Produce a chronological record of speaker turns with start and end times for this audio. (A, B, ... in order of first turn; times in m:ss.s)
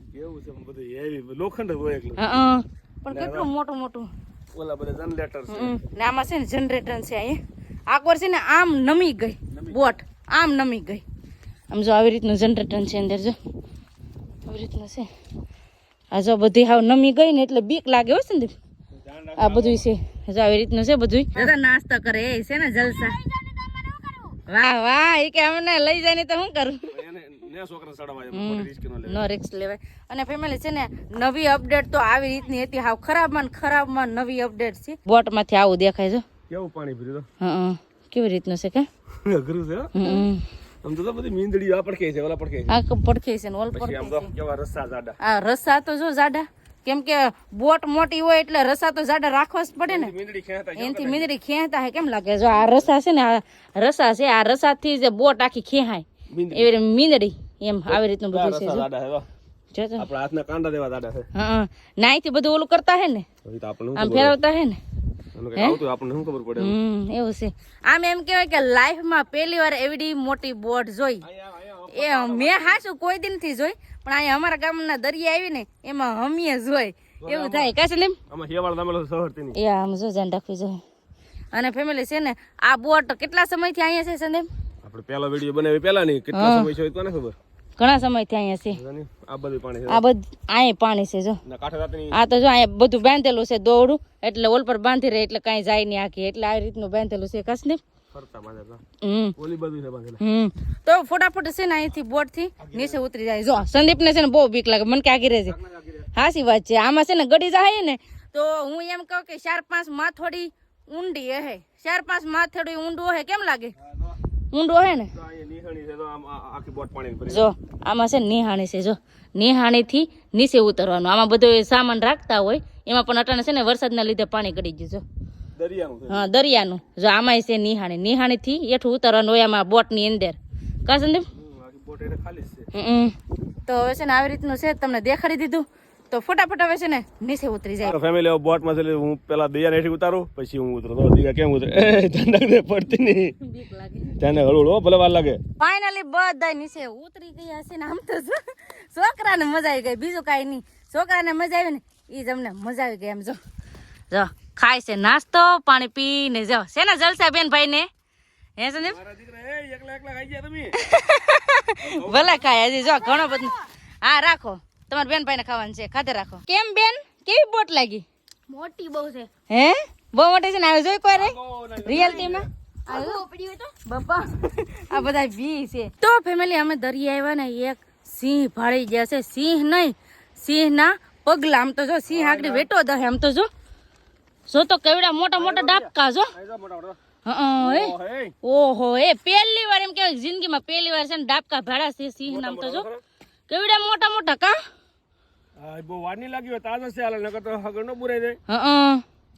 0:00.1-0:02.3 A
0:02.2-0:04.1 B
0:03.1-0:03.5 A
0:04.5-0:05.8 A
0:05.5-0:11.0 B
0:09.5-0:10.0 A
0:11.7-0:13.4 B
0:14.5-0:15.1 B
0:16.1-0:18.6 B
0:19.0-0:19.9 A
0:19.4-0:23.2 B
0:23.0-0:24.4 C
0:24.5-0:27.0 B
0:26.9-0:29.2 A
0:28.3-0:36.2 B
0:36.5-0:37.3 A
0:37.4-0:38.9 B
0:39.2-0:40.2 A
0:40.0-0:40.4 B
0:40.8-0:42.7 A
0:42.7-0:44.3 B
0:43.7-0:45.2 A
0:45.2-0:50.1 B
0:49.8-0:51.3 A
0:50.8-0:58.9 B
0:52.5-0:52.9 A
0:56.3-0:56.7 A
0:57.9-0:59.3 A
0:59.7-1:00.1 B
1:00.0-1:01.3 A
1:01.4-1:03.2 B
1:03.4-1:04.4 A
1:04.0-1:04.8 B
1:05.4-1:06.8 A
1:06.6-1:11.2 B
1:11.2-1:12.8 A
1:11.9-1:18.2 B
1:17.2-1:17.7 A
1:18.3-1:19.6 A
1:19.6-1:20.8 B
1:21.5-1:24.5 B
1:24.8-1:27.4 A
1:26.3-1:26.7 B
1:27.8-1:28.8 B
1:28.7-1:30.0 A
1:29.9-1:31.4 B
1:31.4-1:32.2 A
1:32.1-1:37.8 B
1:38.1-1:38.8 A
1:39.0-1:39.4 B
1:39.4-1:40.2 A
1:40.2-1:45.6 B
1:42.6-1:43.0 A
1:45.5-1:46.1 A
1:46.1-1:53.7 B
1:53.8-1:54.2 A
1:54.5-1:55.1 B
1:55.1-1:57.5 A
1:57.3-2:05.0 B
2:05.6-2:06.3 A
2:06.1-2:11.3 B
2:11.3-2:12.7 A
2:12.7-2:13.1 B
2:13.6-2:18.0 B
2:17.8-2:23.4 A
2:23.4-2:24.2 B
2:24.2-2:25.4 A
2:25.6-2:33.4 B
2:34.1-2:37.9 B
2:38.6-2:39.0 B
2:38.8-2:40.8 A
2:40.8-2:48.0 B
2:41.8-2:42.5 A
2:43.1-2:43.5 C
2:48.5-2:49.3 C
2:49.5-3:03.5 B
2:51.1-2:52.5 A
2:52.9-2:53.9 C
3:02.1-3:02.7 A
3:04.5-3:06.3 B
3:05.4-3:07.0 A
3:07.2-3:12.9 B
3:07.6-3:08.4 A
3:12.2-3:13.0 A
3:13.5-3:14.6 B
3:15.6-3:18.4 A
3:18.5-3:19.0 B